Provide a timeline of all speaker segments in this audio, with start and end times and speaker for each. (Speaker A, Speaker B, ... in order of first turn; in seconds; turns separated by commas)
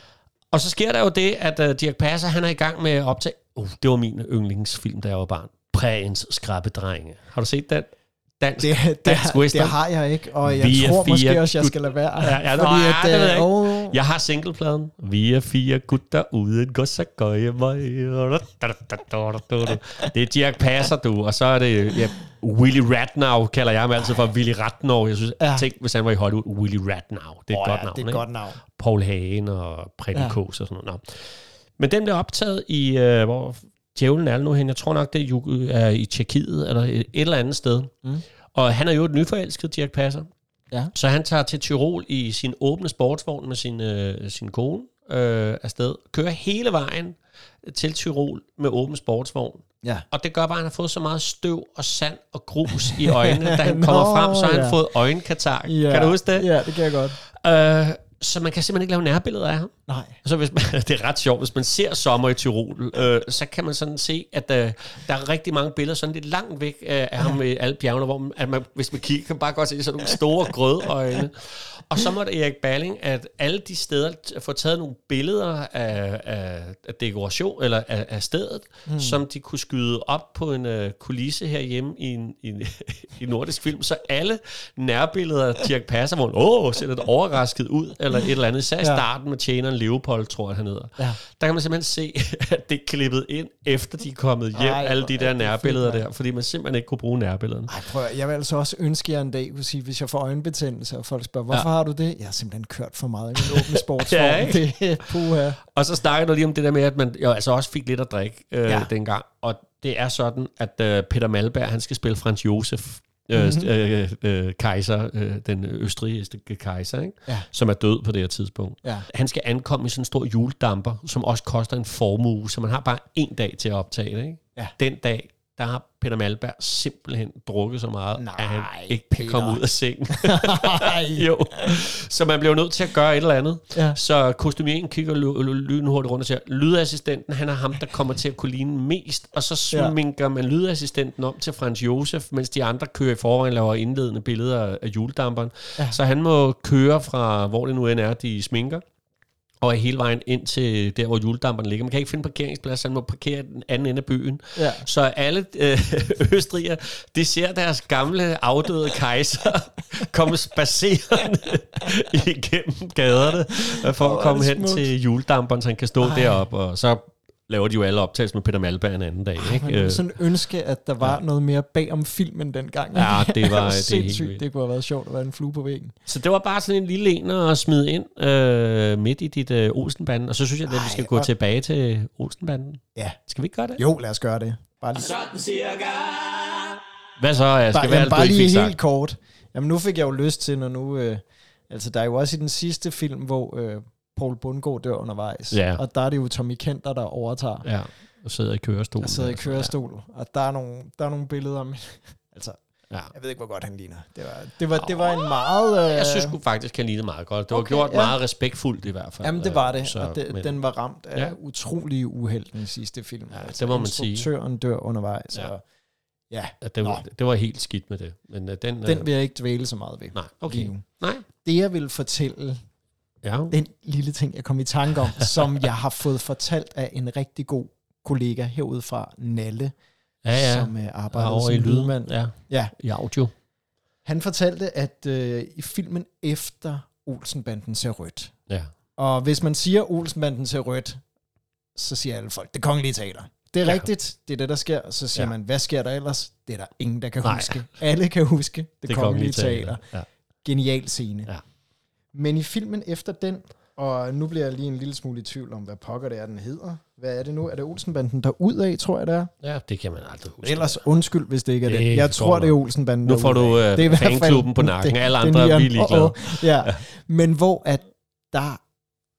Speaker A: 0.5-9.8, Speaker B: 8.6-14.0, Speaker A: 10.4-31.3, Speaker B: 25.4-25.7, Speaker B: 27.5-28.6, Speaker B: 30.1-30.4, Speaker A: 31.8-37.9, Speaker A: 38.5-40.3, Speaker A: 40.9-56.7, Speaker B: 53.1-54.8, Speaker B: 55.6-57.2, Speaker A: 57.2-59.7, Speaker B: 59.9-60.2, Speaker A: 60.2-97.7, Speaker B: 78.9-79.2, Speaker B: 88.8-89.0, Speaker B: 94.5-96.0, Speaker B: 97.7-105.6, Speaker A: 103.4-105.0, Speaker A: 105.7-148.8, Speaker B: 113.3-113.7, Speaker B: 128.2-131.8, Speaker B: 133.7-134.0, Speaker B: 139.7-139.9, Speaker A: 149.6-170.1, Speaker B: 154.5-154.9, Speaker B: 163.9-164.9, Speaker B: 166.0-166.4, Speaker B: 169.4-175.9, Speaker A: 172.9-174.4, Speaker A: 176.1-183.8, Speaker B: 180.7-181.3, Speaker B: 183.8-185.4, Speaker A: 187.2-188.8, Speaker B: 187.7-197.7, Speaker A: 195.5-195.8, Speaker A: 197.6-199.7, Speaker B: 199.0-202.6, Speaker B: 203.1-206.4, Speaker A: 204.8-210.6, Speaker B: 207.5-208.2, Speaker B: 209.2-215.6, Speaker A: 213.3-214.3, Speaker B: 216.3-217.0, Speaker A: 216.6-219.1, Speaker B: 218.8-220.8, Speaker A: 220.1-221.3, Speaker B: 221.4-222.6, Speaker A: 223.2-223.6, Speaker B: 223.5-229.7, Speaker A: 230.2-233.3, Speaker B: 230.3-232.7, Speaker B: 234.0-238.3, Speaker B: 239.0-241.0, Speaker B: 241.8-249.8, Speaker A: 247.2-247.6, Speaker A: 248.9-250.1, Speaker B: 250.4-251.3, Speaker B: 252.1-259.3, Speaker A: 259.4-260.8, Speaker B: 260.4-268.6, Speaker A: 261.6-266.8